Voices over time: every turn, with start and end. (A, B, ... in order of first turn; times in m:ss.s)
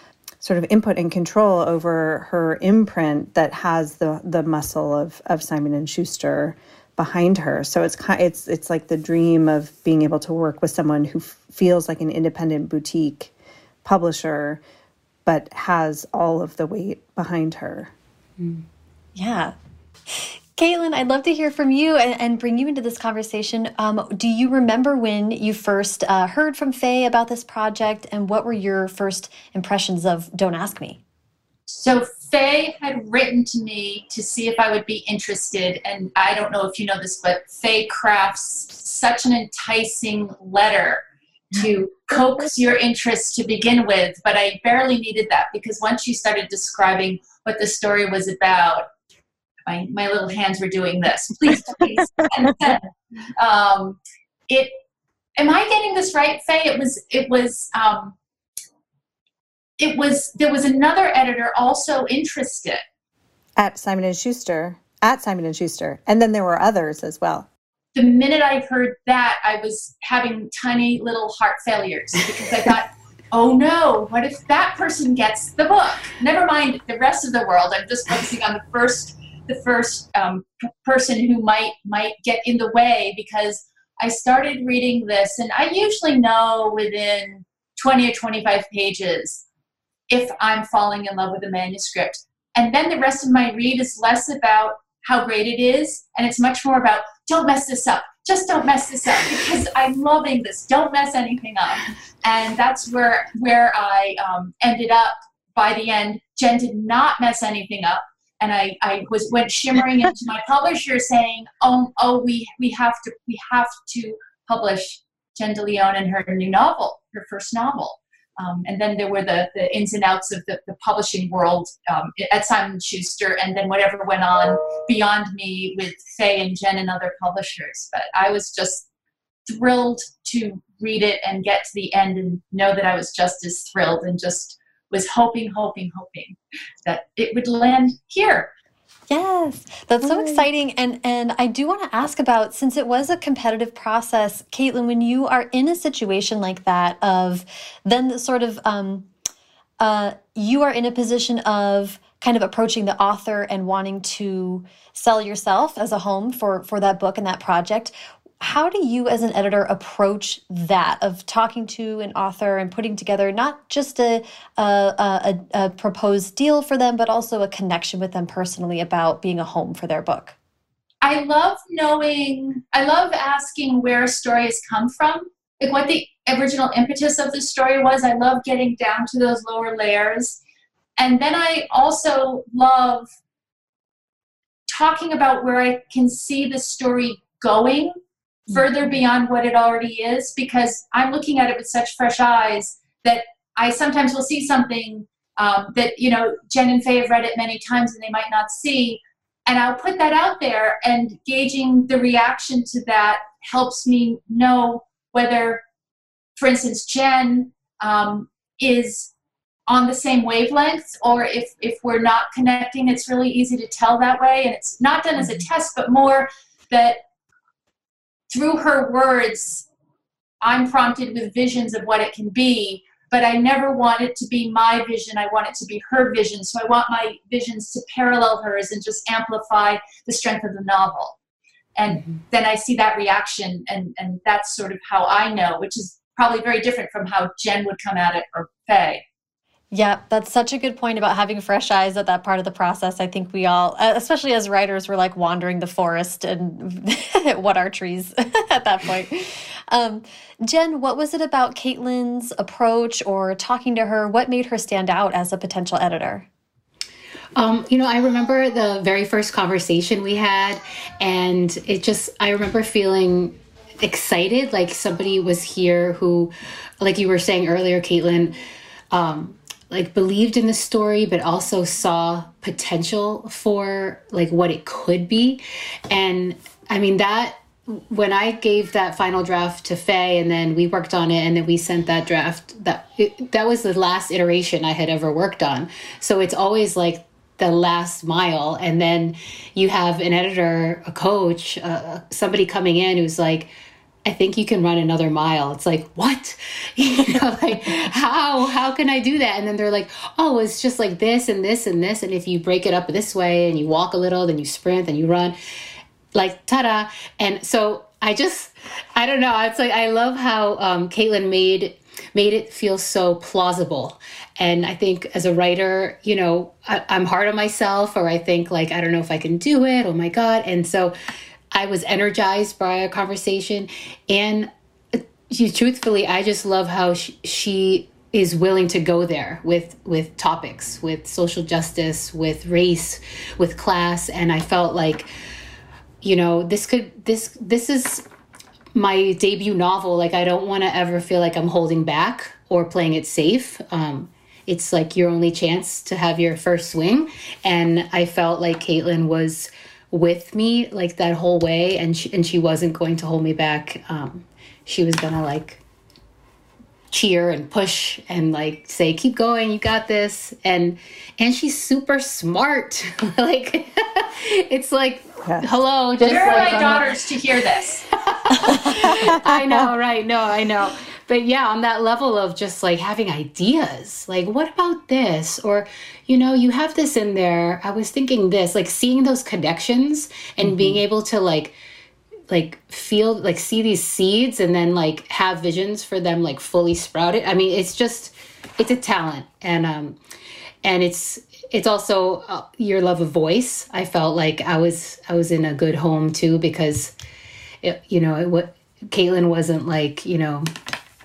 0:00.4-0:13.3 A
0:13.8-0:14.6 A
0:15.2-0:17.9 A
0:19.1-0:19.5 B
0:20.1-0:31.0 B
0:31.7-0:48.8 C
0:49.7-0:54.7 C
0:55.4-0:58.2 C
0:59.8-1:02.8 C
1:03.6-1:07.5 A
1:07.9-1:29.4 C
1:30.1-2:08.9 C
2:09.5-2:18.5 C
2:19.1-2:29.1 B
2:20.0-2:20.4 A
2:29.8-2:50.3 B
2:51.0-3:00.4 C
3:01.0-3:03.1 C
3:04.7-3:07.9 C
3:08.5-3:25.6 C
3:26.4-3:29.1 C
3:29.7-3:37.0 C
3:38.3-3:39.7 C
3:40.4-3:51.2 C
3:51.7-3:59.0 C
3:59.7-4:16.3 B
4:17.4-4:28.3 D
4:28.9-4:53.5 D
4:54.0-5:05.3 D
5:06.1-5:20.9 D
5:21.5-5:35.1 D
5:36.0-5:38.0 D
5:38.7-5:55.6 D
5:56.9-6:06.9 D
6:05.2-6:05.5 A
6:06.0-6:07.8 C
6:08.0-6:21.5 D
6:08.7-6:09.7 A
6:20.4-6:20.8 A
6:22.3-6:30.0 D
6:30.6-6:36.9 D
6:37.6-6:40.4 D